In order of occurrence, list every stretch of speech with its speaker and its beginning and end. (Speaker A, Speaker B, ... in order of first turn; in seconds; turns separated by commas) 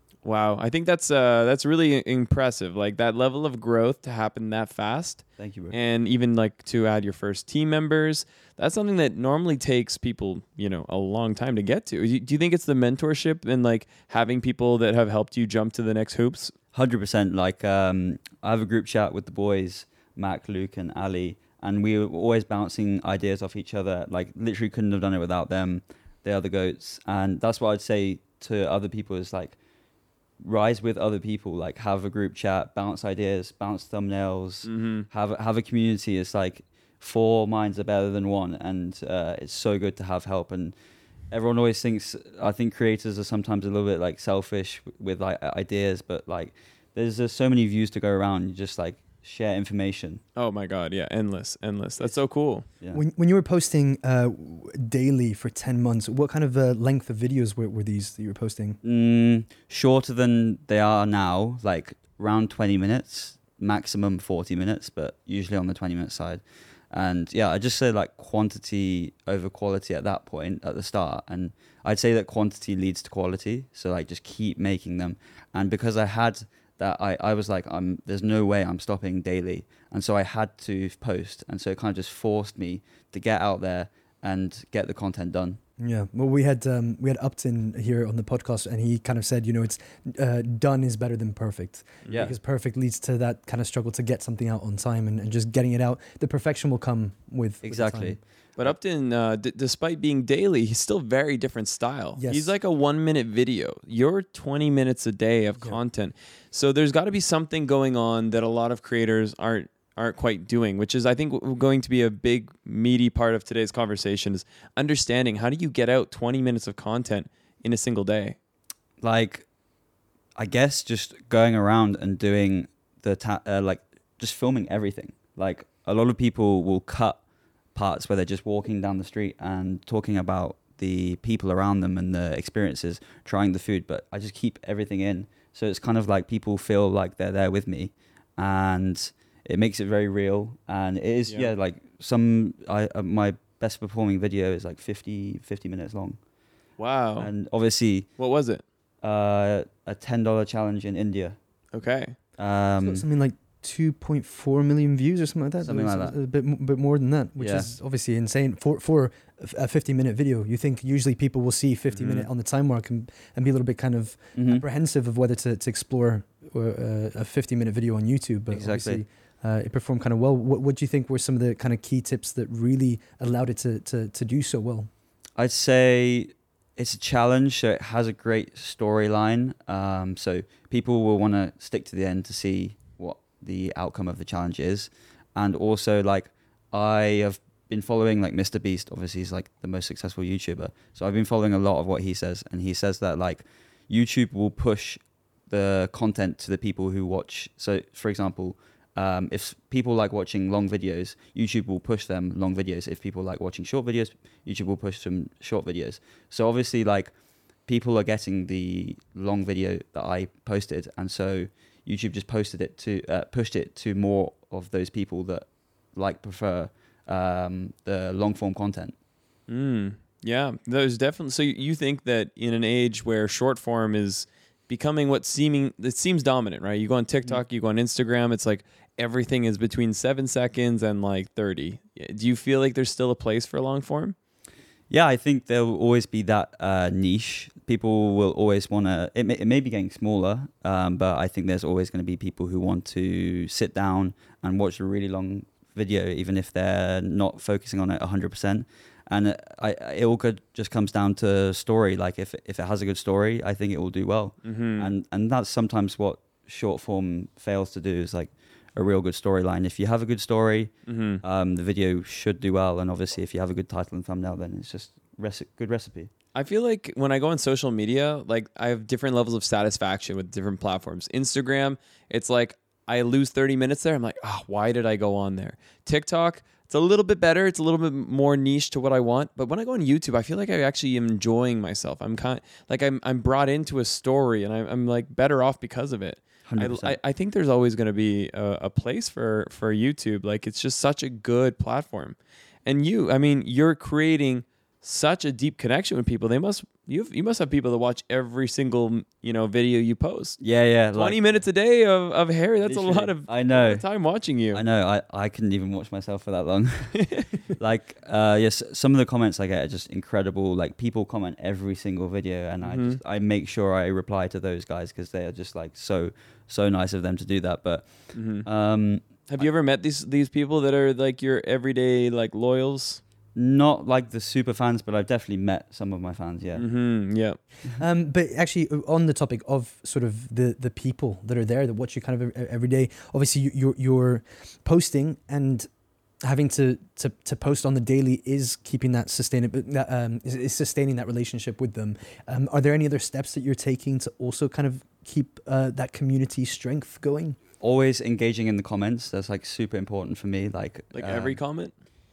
Speaker A: 0.2-16.5, Speaker B: 5.4-5.8, Speaker B: 16.7-29.6, Speaker B: 30.4-40.8, Speaker A: 34.6-35.1, Speaker B: 41.3-50.2, Speaker A: 50.4-52.7, Speaker B: 52.7-53.0, Speaker C: 52.9-58.8, Speaker B: 58.8-85.6, Speaker C: 85.8-98.2, Speaker A: 92.0-92.3, Speaker B: 92.1-92.3, Speaker B: 97.6-98.2, Speaker A: 98.6-118.4, Speaker C: 102.2-102.5, Speaker B: 119.0-119.5, Speaker B: 120.4-127.2, Speaker B: 127.8-146.2, Speaker A: 146.8-147.3, Speaker B: 147.2-148.1, Speaker A: 148.2-148.6, Speaker B: 149.0-151.4, Speaker A: 151.7-152.2, Speaker B: 152.4-153.0, Speaker C: 152.8-174.9, Speaker B: 155.6-156.2, Speaker B: 157.4-157.7, Speaker A: 161.9-162.3, Speaker B: 164.3-164.6, Speaker B: 168.5-169.0, Speaker B: 175.4-207.1, Speaker B: 207.7-218.9, Speaker A: 219.5-234.2, Speaker B: 234.9-266.1, Speaker A: 254.4-254.9, Speaker A: 260.9-261.2, Speaker A: 266.3-300.4, Speaker B: 286.5-287.0, Speaker B: 300.4-301.2, Speaker A: 300.9-304.6, Speaker B: 302.6-303.8, Speaker B: 304.5-319.5, Speaker A: 306.9-307.3, Speaker A: 312.6-313.0, Speaker A: 318.1-318.5, Speaker A: 319.1-323.0, Speaker B: 323.4-326.7, Speaker A: 326.6-327.4, Speaker C: 327.8-335.7, Speaker C: 336.2-347.4, Speaker B: 347.6-351.4, Speaker A: 350.9-351.7